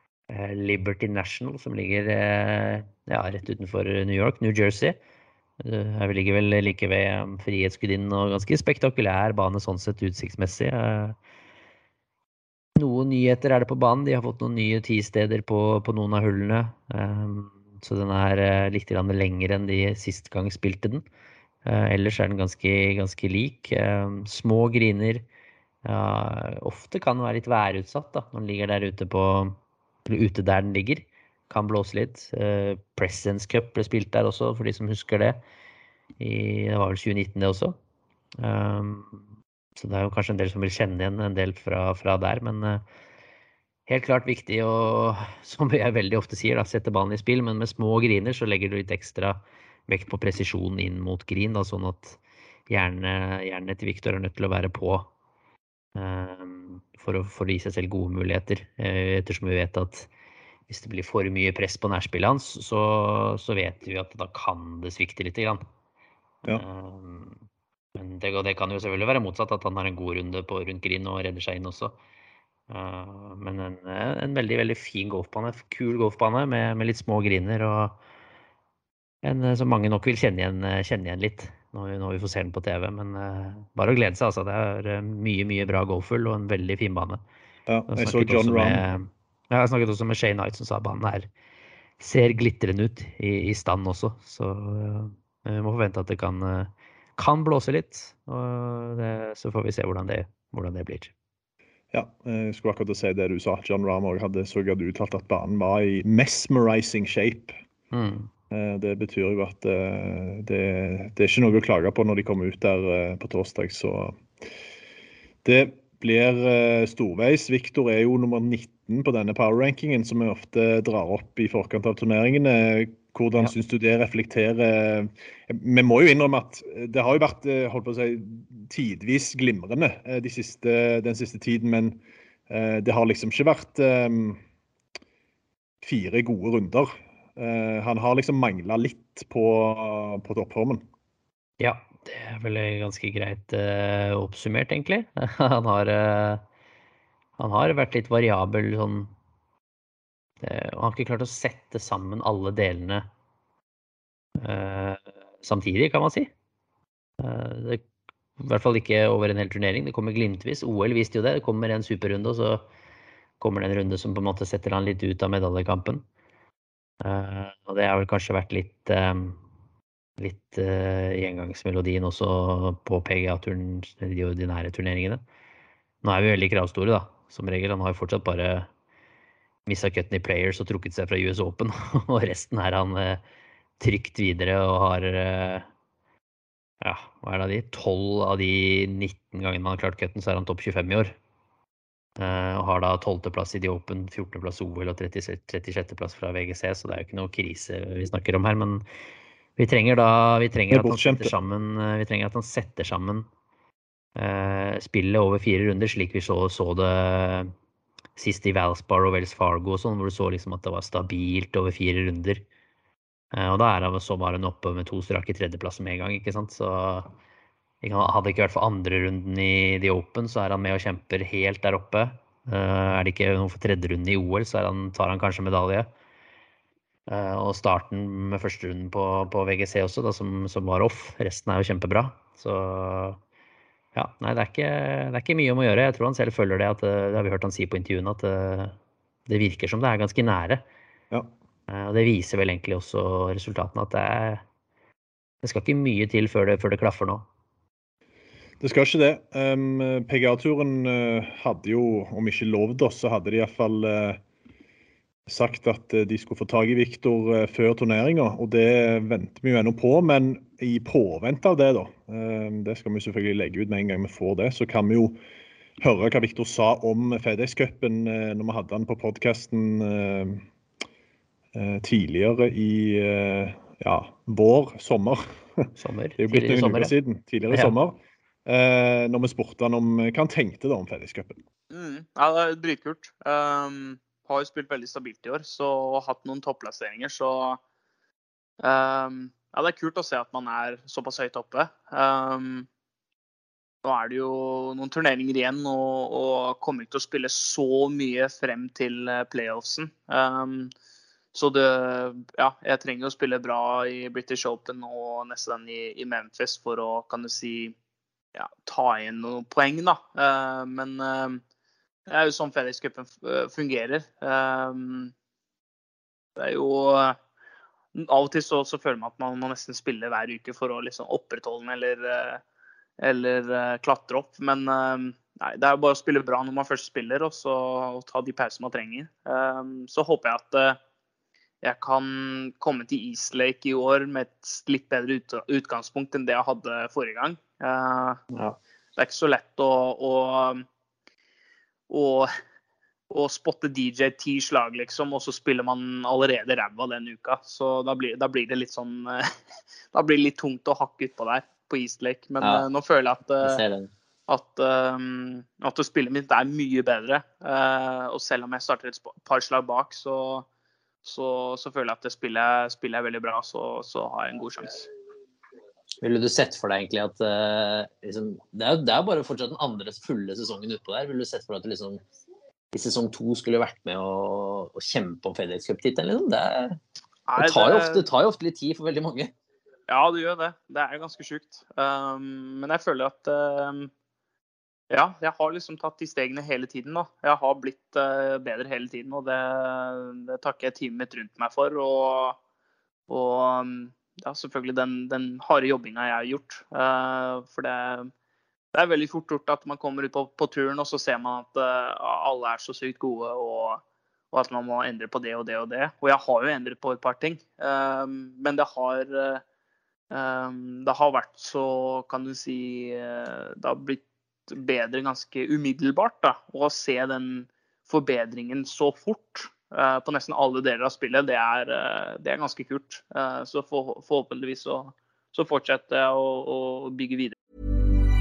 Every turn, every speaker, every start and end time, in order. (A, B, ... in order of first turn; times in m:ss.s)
0:00.3-0:05.0 A
0:05.6-0:11.2 A
0:12.8-0:21.0 A
0:21.6-0:25.2 A
0:25.8-0:35.4 A
0:36.2-0:37.8 A
0:38.4-0:39.2 A
0:39.8-0:42.8 A
0:43.9-0:55.1 A
0:56.0-1:00.1 A
1:00.7-1:05.6 A
1:06.5-1:07.4 A
1:08.0-1:12.0 A
1:12.7-1:18.0 A
1:19.2-1:27.2 A
1:27.7-1:28.8 B
1:27.9-1:31.3 A
1:32.0-1:41.1 A
1:41.9-1:47.6 B
1:47.9-1:48.3 A
1:48.5-1:54.2 B
1:55.4-2:14.4 B
2:15.8-2:20.8 B
2:21.6-2:26.4 A
2:27.4-2:29.1 A
2:30.4-2:33.1 A
2:34.4-2:36.3 A
2:37.2-2:37.8 A
2:38.4-2:42.6 A
2:43.4-2:46.0 A
2:47.0-2:49.4 A
2:50.2-2:55.2 A
2:56.0-2:58.7 A
2:59.7-3:03.2 A
3:03.8-3:05.6 A
3:06.8-3:11.1 A
3:12.2-3:18.8 A
3:19.6-3:23.3 A
3:20.7-3:21.3 B
3:24.2-3:27.5 A
3:28.2-3:32.4 A
3:33.3-3:37.1 A
3:37.8-3:45.9 A
3:47.1-3:53.2 A
3:53.9-3:58.7 A
3:59.3-4:00.6 A
4:01.7-4:04.4 A
4:05.4-4:07.2 A
4:08.6-4:14.2 B
4:15.3-4:25.2 B
4:25.8-4:30.4 B
4:31.5-4:35.7 B
4:35.8-4:36.9 A
4:36.2-4:41.4 B
4:37.5-4:37.7 A
4:41.7-4:47.6 C
4:48.6-4:52.7 C
4:53.8-5:00.7 C
5:01.3-5:07.7 C
5:08.3-5:11.4 C
5:12.1-5:15.1 C
5:16.4-5:17.2 C
5:17.9-5:22.4 C
5:23.0-5:30.8 C
5:31.6-5:38.2 C
5:39.0-5:40.6 C
5:41.9-5:42.3 C
5:43.1-5:49.3 C
5:49.9-5:53.6 C
5:52.4-5:52.6 D
5:53.4-5:53.9 D
5:54.3-6:00.4 C
6:01.0-6:04.9 C
6:06.0-6:12.0 D
6:12.7-6:16.8 D
6:17.3-6:18.1 C
6:17.4-6:19.3 D
6:19.9-6:23.9 C
6:24.9-6:32.4 C
6:33.1-6:38.1 C
6:38.7-6:49.4 C
6:50.1-7:07.3 C